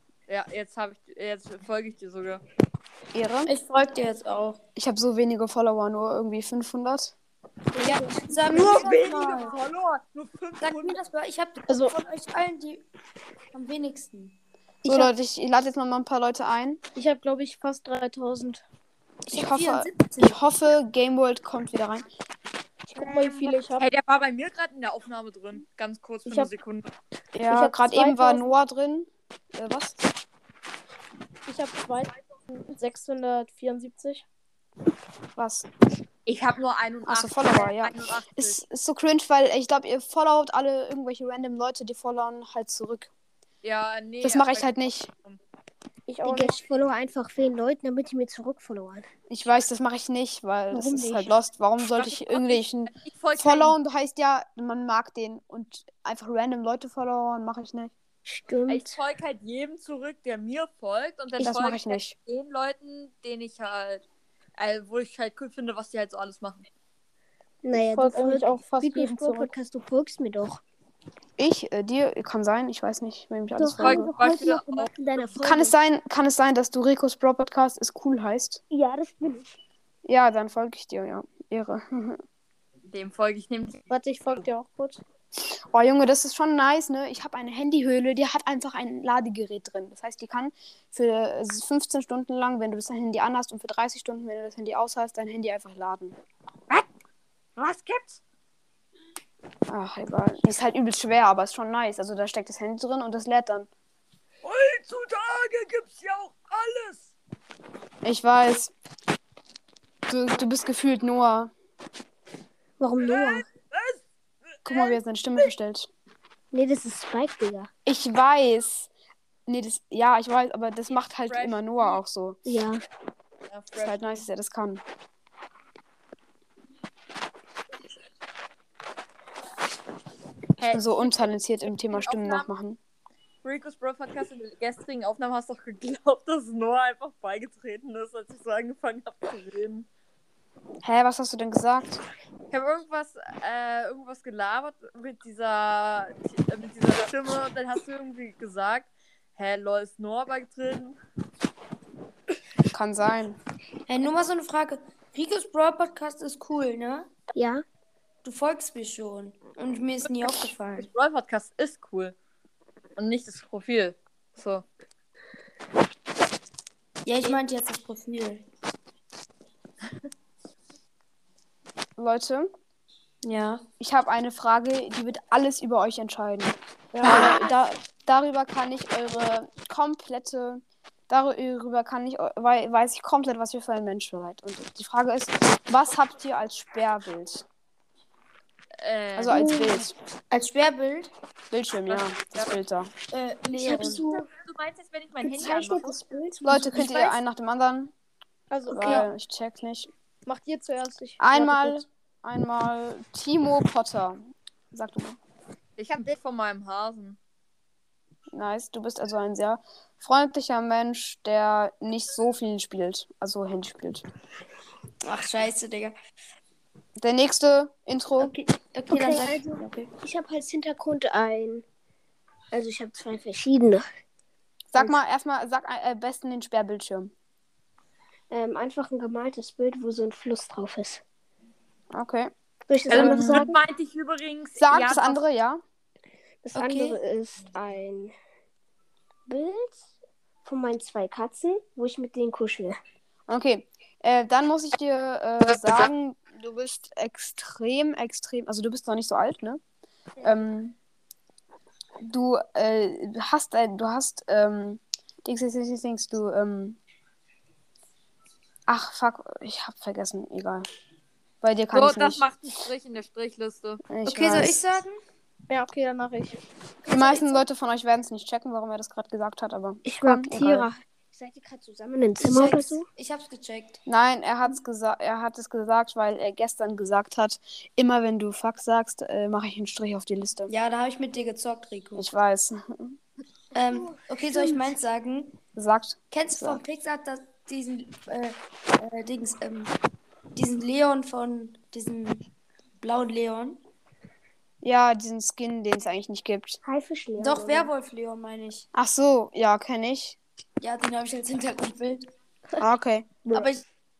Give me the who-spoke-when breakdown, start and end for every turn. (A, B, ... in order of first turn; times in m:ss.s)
0:00.3-0:02.4 A
0:03.1-0:03.5 B
0:03.4-0:04.6 C
0:04.8-0:07.1 B
0:07.7-0:08.9 D
0:07.8-0:09.6 C
0:08.5-0:11.0 A
0:10.6-0:12.8 C
0:11.7-0:11.9 E
0:13.5-0:14.4 C
0:14.8-0:16.8 B
0:14.8-0:15.1 E
0:16.9-0:18.6 E
0:19.3-0:22.0 B
0:19.3-0:20.4 C
0:23.0-0:23.8 E
0:23.0-0:26.9 A
0:26.2-0:26.5 E
0:27.3-0:30.0 B
0:27.5-0:28.4 E
0:31.4-0:34.2 E
0:35.4-0:35.6 B
0:36.2-0:38.6 A
0:37.0-0:43.1 B
0:43.6-0:45.4 A
0:44.2-0:45.1 B
0:46.1-0:46.5 E
0:46.2-0:49.0 D
0:49.3-0:57.9 B
0:50.7-0:51.3 D
0:51.9-0:53.8 A
0:58.3-0:59.0 D
0:58.7-1:04.0 A
1:01.4-1:02.1 B
1:04.6-1:06.7 A
1:07.6-1:10.6 D
1:07.7-1:09.5 E
1:11.4-1:14.1 B
1:13.6-1:15.7 D
1:13.8-1:14.9 A
1:15.4-1:18.6 B
1:18.7-1:19.4 D
1:20.0-1:22.2 B
1:22.9-1:23.8 A
1:23.9-1:25.0 E
1:25.7-1:36.2 B
1:37.6-1:38.2 A
1:39.7-1:43.7 B
1:44.4-1:47.1 A
1:48.0-1:48.7 B
1:50.1-1:51.5 B
1:52.8-1:53.4 D
1:53.0-1:54.0 A
1:54.6-1:55.0 A
1:54.6-1:55.9 B
1:56.5-1:57.7 D
1:57.8-1:58.9 B
1:59.5-2:02.4 B
2:01.3-2:02.0 A
2:02.4-2:02.8 D
2:03.5-2:04.2 A
2:03.8-2:04.8 B
2:10.6-2:11.3 A
2:10.7-2:12.8 B
2:11.8-2:12.5 A
2:13.4-2:19.9 A
2:20.8-2:22.0 B
2:22.5-2:31.0 A
2:32.7-2:33.4 B
2:33.9-2:37.1 C
2:37.3-2:37.6 D
2:38.2-2:40.9 C
2:40.8-2:42.1 A
2:43.0-2:44.6 A
2:47.0-2:48.4 C
2:52.0-2:52.5 B
2:53.2-2:53.6 C
2:53.8-3:07.4 B
2:56.9-2:57.5 C
3:08.8-3:09.5 A
3:09.2-3:09.9 B
3:09.3-3:11.1 C
3:11.5-3:12.9 B
3:11.8-3:12.5 A
3:13.1-3:14.3 C
3:13.5-3:14.2 D
3:13.8-3:16.0 A
3:15.2-3:16.8 D
3:16.4-3:17.9 B
3:18.5-3:19.1 E
3:18.7-3:19.9 B
3:20.2-3:21.8 E
3:21.2-3:25.2 B
3:25.8-3:27.2 A
3:28.3-3:34.0 B
3:35.0-3:35.9 C
3:37.0-3:38.3 B
3:38.2-3:39.9 C
3:38.9-3:41.6 D
3:42.5-3:43.9 D
3:44.7-3:47.1 B
3:48.3-3:51.0 D
3:51.9-3:52.3 B
3:52.7-3:53.6 D
3:52.9-3:55.2 A
3:52.9-3:53.5 B
3:54.6-3:55.6 B
3:56.4-3:58.1 D
3:56.5-3:57.0 B
3:59.3-3:59.8 D
4:00.4-4:02.8 D
4:03.3-4:09.6 B
4:10.2-4:10.8 B
4:12.0-4:16.8 B
4:18.7-4:20.6 B
4:21.4-4:22.2 B
4:21.7-4:23.8 A
4:23.8-4:24.8 B
4:24.0-4:25.0 C
4:25.5-4:26.4 E
4:26.9-4:30.7 B
4:29.8-4:32.8 D
4:32.2-4:33.8 C
4:33.8-4:40.5 B
4:40.5-4:42.1 C
4:42.0-4:43.0 B
4:43.5-4:45.4 C
4:45.5-4:46.6 B
4:46.1-4:49.7 C
4:50.3-4:52.2 C
4:52.8-4:53.6 C
4:54.6-4:56.6 B
4:56.6-4:57.7 D
4:57.2-4:58.7 C
4:58.7-5:00.2 B
5:00.6-5:02.0 C
5:02.6-5:03.2 B
5:03.2-5:03.6 C